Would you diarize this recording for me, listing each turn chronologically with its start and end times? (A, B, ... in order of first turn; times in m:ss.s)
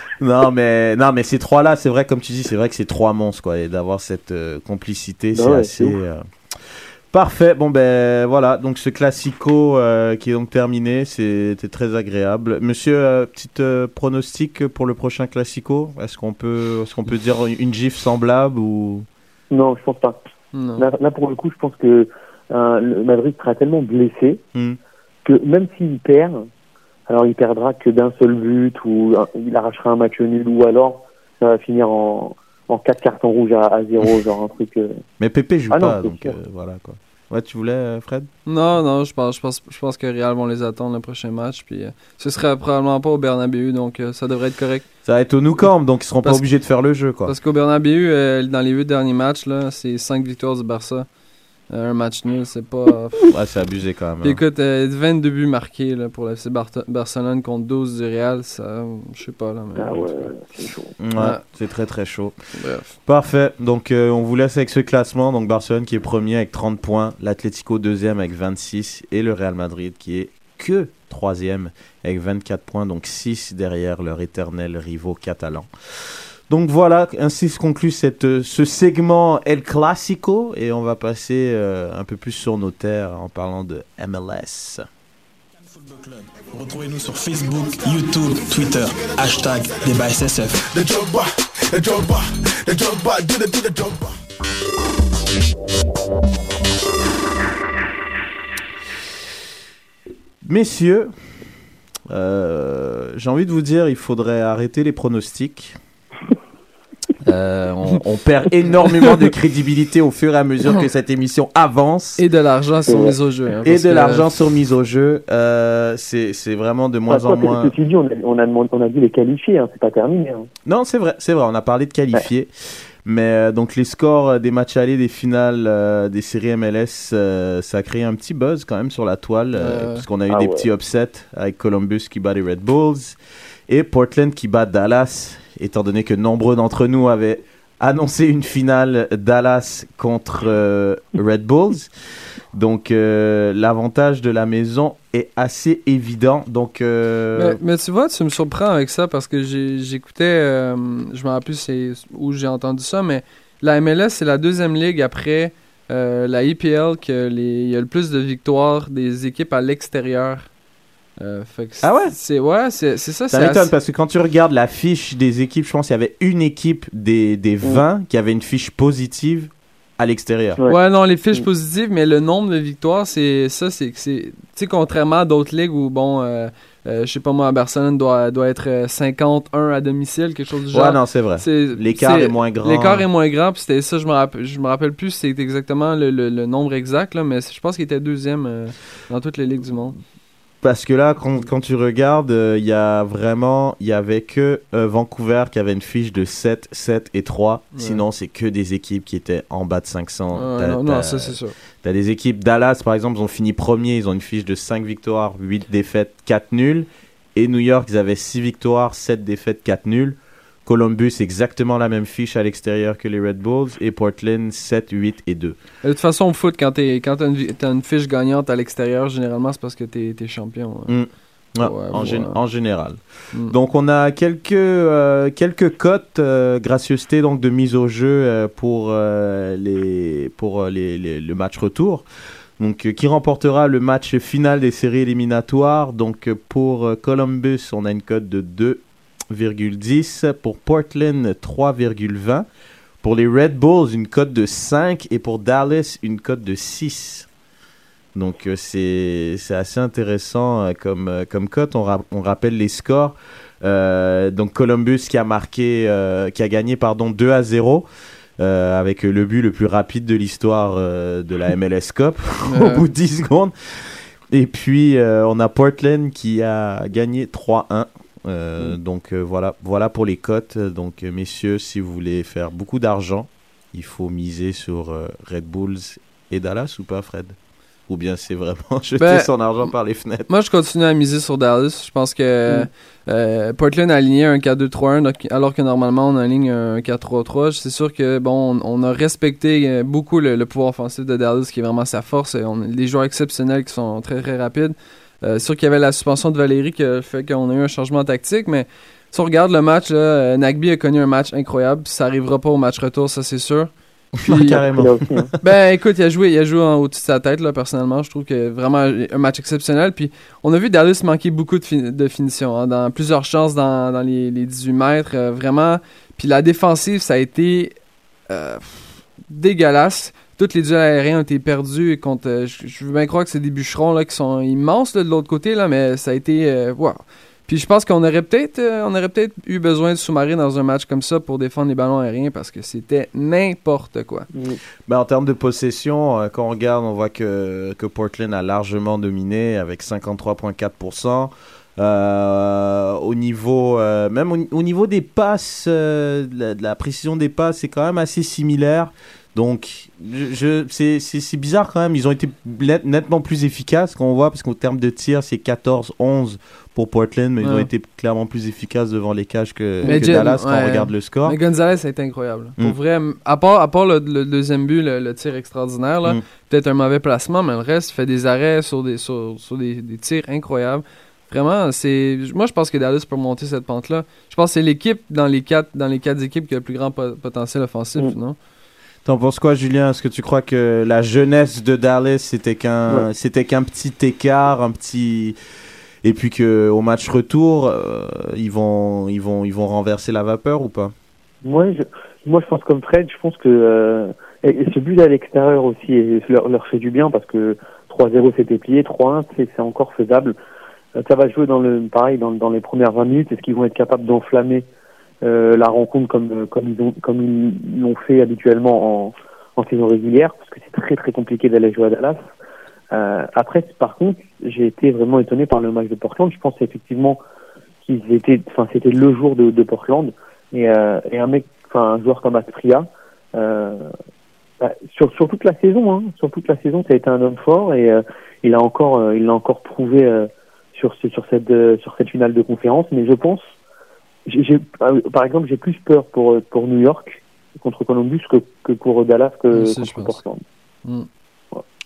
0:00.2-0:19.1 A
0:05.3-0:06.0 B
0:19.5-0:20.2 B
0:20.5-0:20.8 C
0:20.8-0:24.4 B
0:25.2-0:26.4 B
0:27.1-0:35.0 B
0:35.2-0:38.3 A
0:35.7-0:36.4 B
0:38.5-0:44.8 C
0:45.0-0:47.3 A
0:47.2-0:51.1 C
0:51.7-0:53.3 C
0:53.3-0:54.4 A
0:54.2-1:00.3 C
0:59.8-1:01.0 B
1:01.0-1:15.7 A
1:01.2-1:01.4 C
1:02.6-1:02.9 C
1:16.5-1:24.8 A
1:25.6-1:34.2 D
1:40.4-1:41.1 A
1:42.1-1:45.8 A
1:47.2-1:52.2 A
1:52.2-1:54.3 C
1:52.9-1:53.1 B
1:53.6-1:57.7 A
1:57.1-2:00.5 B
2:00.6-2:13.2 A
2:09.6-2:10.0 C
2:10.3-2:10.7 B
2:13.7-2:21.9 A
2:22.5-2:27.6 A
2:27.4-2:40.5 C
2:41.2-2:43.7 C
2:41.8-2:42.1 A
2:43.3-2:50.6 A
2:50.7-3:10.0 C
3:00.7-3:03.1 A
3:10.6-3:35.6 A
3:17.7-3:18.0 C
3:20.3-3:21.5 C
3:35.8-3:40.9 C
3:40.9-3:52.0 A
3:41.6-3:42.4 C
3:52.6-4:02.5 A
4:03.0-4:07.3 A
4:08.1-4:17.8 A
4:18.4-4:37.4 A
4:22.4-4:22.8 C
4:37.9-4:40.3 A
4:39.0-4:39.3 C
4:40.3-5:03.7 C
5:04.2-5:05.2 A
5:04.2-5:04.6 C
5:04.5-5:05.3 B
5:05.4-5:17.7 C
5:18.3-5:34.3 C
5:34.3-5:34.6 B
5:34.9-6:01.4 A
5:57.4-5:57.7 C
5:59.8-6:00.3 B
5:59.8-6:18.4 C
6:19.0-6:25.4 A
6:26.0-6:30.9 A
6:31.4-6:40.4 B
6:41.0-6:44.6 B
6:45.2-6:52.2 B
6:52.9-6:57.2 B
6:57.8-7:03.9 B
7:04.6-7:13.5 B
7:14.2-7:20.4 B
7:19.5-7:20.2 C